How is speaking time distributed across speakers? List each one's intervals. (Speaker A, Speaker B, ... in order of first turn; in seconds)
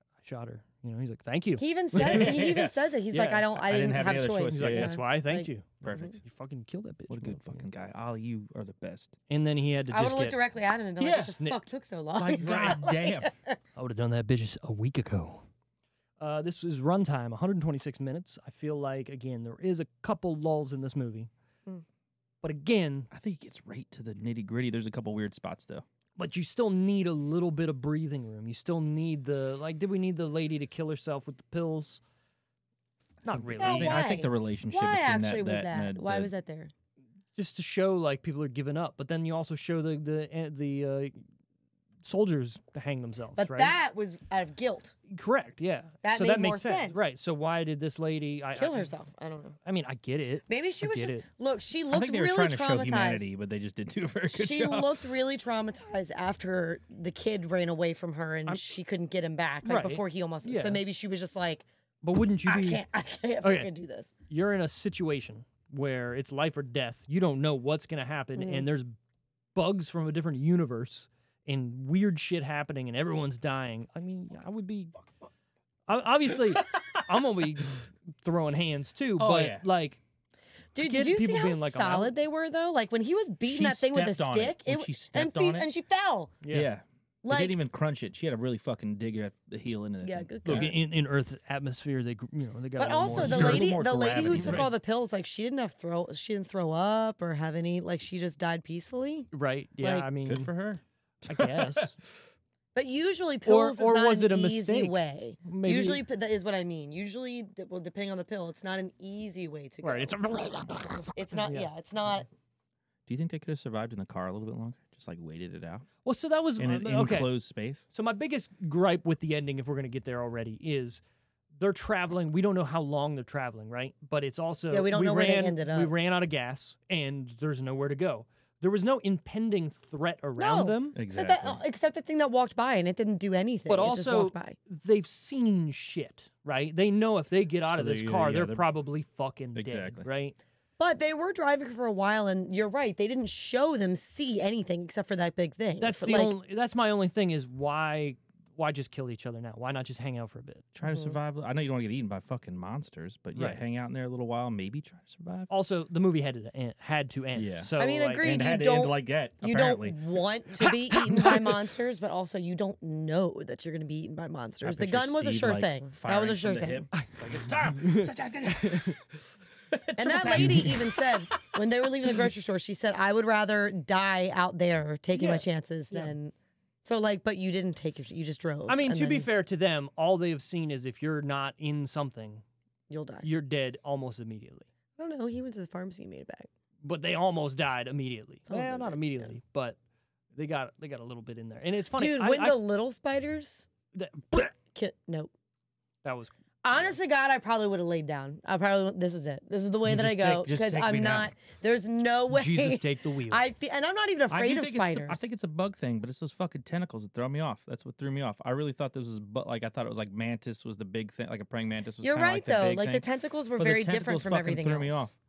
Speaker A: 0.2-2.4, 4.0-7.7, 9.3-10.4, 11.1-11.6, 13.8-15.4, 16.2-21.3, 22.4-23.1, 26.1-32.0, 33.2-34.1, 37.3-41.2, 42.0-43.7, 45.1-48.9, 49.6-51.3, 59.6-60.8, 62.0-62.8, 63.4-63.7, 64.3-68.9, 69.5-75.0, 75.9-80.0, 80.8-82.1, 86.4-86.7, 90.4-94.7, 99.3-100.5, 101.3-101.9, 103.5-106.0, 109.8-111.7, 116.0-117.3, 117.9-121.0, 121.5-130.9, 133.7-140.4, 145.8-150.6, 153.3-153.6, 155.5-158.2, 166.9-169.0, 170.2-170.7, 175.1-176.1, 178.7-182.4, 183.2-184.7, 186.8-189.8, 190.3-192.6, 193.9-194.5, 196.0-196.3, 202.3-203.4
Speaker B: 1.6-6.2, 9.9-13.6, 33.6-36.7, 43.4-44.9, 46.0-47.0, 48.5-49.6, 50.5-53.3, 54.3-61.6, 62.5-64.1, 68.4-68.7, 80.7-86.4, 87.2-87.6, 90.0-90.8, 92.8-99.3, 99.8-100.1, 102.7-110.2, 111.1-112.3, 124.7-125.9, 130.4-134.6, 140.8-146.3, 150.8-151.2, 157.8-166.9, 170.0-179.3, 182.9-183.3, 185.0-186.5, 188.5-189.3, 191.9-193.7, 194.5-195.3, 196.6-205.3, 212.0-215.1
Speaker C: 1.9-5.0, 5.8-6.2, 7.1-9.2, 11.0-11.4, 12.2-13.3, 23.1-25.8, 33.3-36.3, 51.9-55.1, 76.5-77.0, 79.2-79.6, 83.5-85.7, 86.5-90.7, 93.1-94.7, 100.2-102.1, 113.1-115.9, 116.6-117.8, 130.9-131.6, 137.7-138.7, 139.5-140.1, 150.7-155.5, 157.3-160.0, 161.1-161.4, 164.6-171.1, 199.8-201.3, 204.3-215.1